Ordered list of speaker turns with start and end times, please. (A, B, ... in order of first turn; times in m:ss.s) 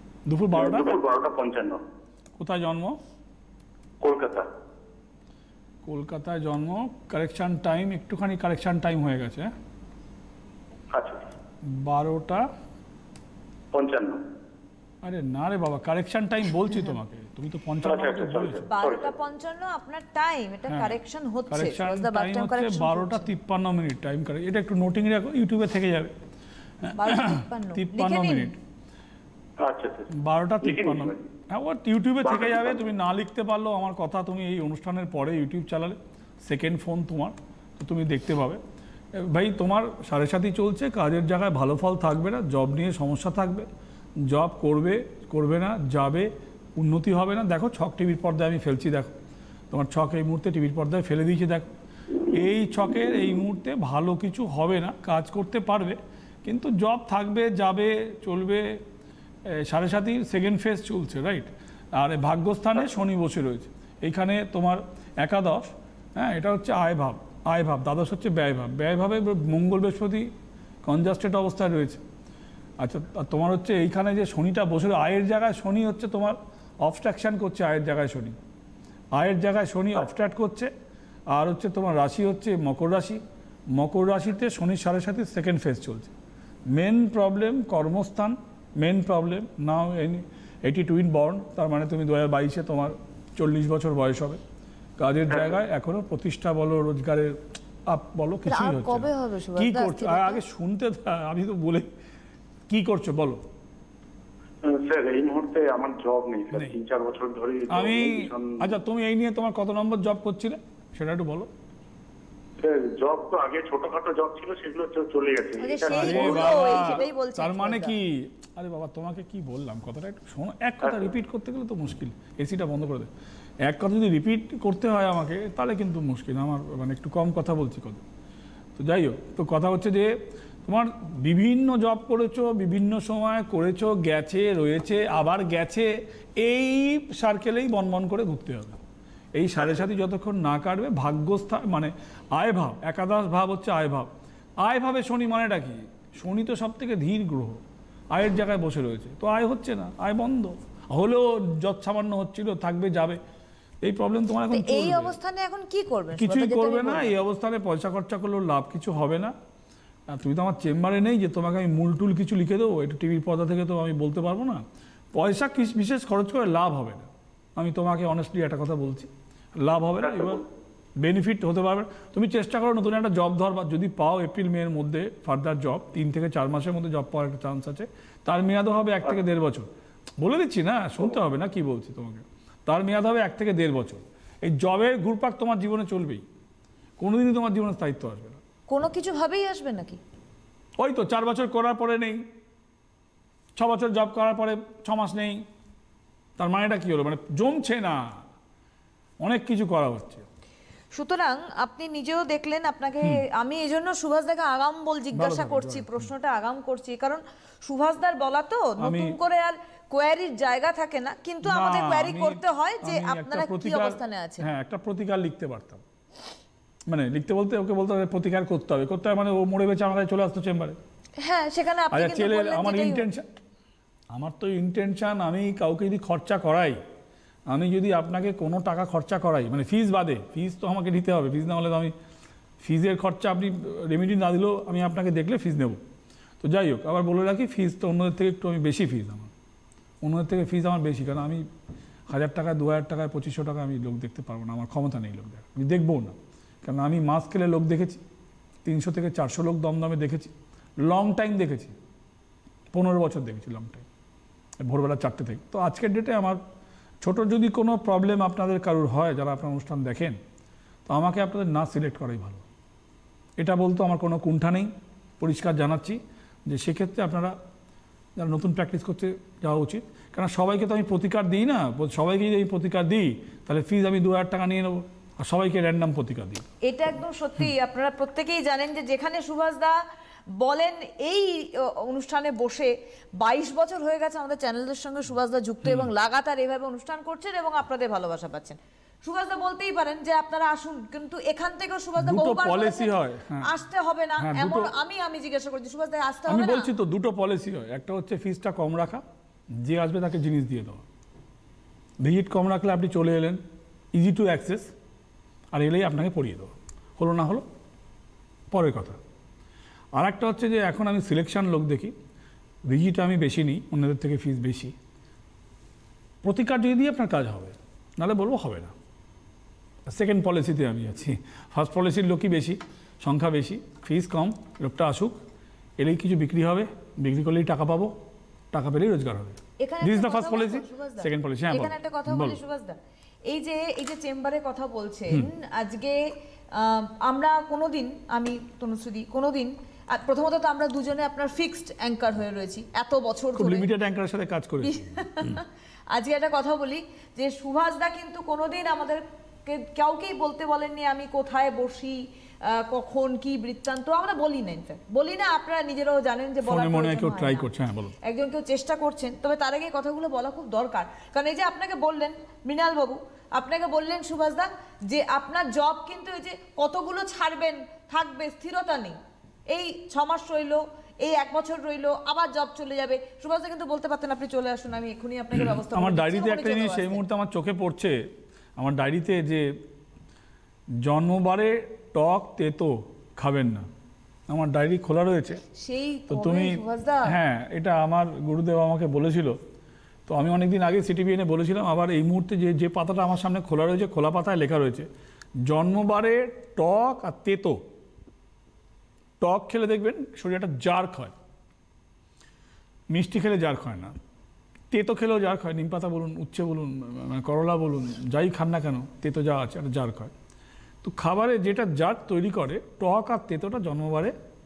0:00.2-0:01.0 A
0:00.5-0:01.8 B
0:02.4-0:03.0 A
0:04.0-0:04.5 B
0:05.8-0:09.5 A
0:10.9-0:11.3 B
0:11.6-0:12.4 A
0:13.7-0:14.2 B
0:15.0-0:18.7 A
0:17.8-0:19.1 B
0:18.7-0:23.3 C
0:20.7-0:21.0 A
0:21.5-0:26.1 A
0:26.8-0:28.5 A
0:26.9-0:28.5 C
0:29.6-0:31.2 B
0:30.1-0:38.6 A
0:32.2-0:32.8 B
0:39.2-0:43.7 A
0:44.2-0:49.1 A
0:49.7-0:51.7 A
0:52.3-0:58.8 A
0:59.5-1:10.3 A
1:10.8-1:12.0 A
1:12.8-1:18.4 A
1:19.1-1:20.7 A
1:21.3-1:23.2 A
1:23.7-1:26.1 A
1:26.7-1:34.4 A
1:35.0-1:41.9 A
1:38.4-1:40.4 C
1:42.7-1:43.4 A
1:44.6-1:48.6 B
1:47.7-1:51.5 A
1:52.6-1:56.9 B
1:55.6-1:57.9 C
1:55.9-2:03.1 A
2:03.6-2:08.0 A
2:08.8-2:10.1 A
2:10.6-2:18.8 A
2:19.4-2:24.1 A
2:24.6-2:33.2 A
2:33.8-2:35.2 A
2:34.5-2:37.2 C
2:36.1-2:39.3 A
2:40.1-2:50.4 A
2:50.1-2:50.4 B
2:51.0-3:06.2 A
3:07.0-3:08.4 A
3:08.7-3:10.0 C
3:10.8-3:12.2 A
3:13.5-3:15.4 A
3:16.4-3:18.2 A
3:19.2-3:20.2 A
3:20.9-3:34.5 C
3:25.1-3:26.1 A
3:28.8-3:29.2 A
3:31.4-3:35.8 A
3:36.9-3:40.8 A
3:41.2-3:43.1 C
3:41.9-3:43.3 A
3:44.1-3:46.8 A
3:47.5-3:51.9 A
3:52.6-3:55.8 A
3:56.4-3:59.3 A
4:00.0-4:01.4 A
4:02.1-4:08.0 A
4:08.6-4:11.7 A
4:12.7-4:13.8 A
4:14.6-4:16.4 A
4:17.0-4:20.2 A
4:20.9-4:22.4 A
4:23.4-4:27.3 A
4:28.2-4:36.5 A
4:36.6-4:39.8 C
4:40.3-4:56.7 C
4:52.0-4:53.5 A
4:54.2-4:54.7 A
4:56.3-4:59.0 A
4:59.5-5:00.8 A
5:02.0-5:03.4 A
5:03.9-5:04.7 A
5:05.5-5:07.5 A
5:08.5-5:09.0 A
5:10.0-5:11.9 A
5:12.7-5:14.7 A
5:16.2-5:18.7 A
5:19.9-5:25.2 A
5:25.8-5:27.9 A
5:28.5-5:32.4 A
5:29.6-5:43.7 C
5:43.4-5:45.4 A
5:44.6-5:57.5 C
5:56.4-5:57.9 A
5:58.0-6:09.0 C
6:09.5-6:17.0 C
6:15.4-6:18.0 A
6:18.6-6:19.5 A
6:20.8-6:23.7 A
6:24.3-6:25.4 A
6:25.6-6:27.2 C
6:26.1-6:29.4 A
6:30.1-6:34.9 A
6:35.4-6:37.6 A
6:39.2-6:41.1 A
6:42.9-6:43.9 A
6:44.7-6:50.1 A
6:50.8-6:54.1 A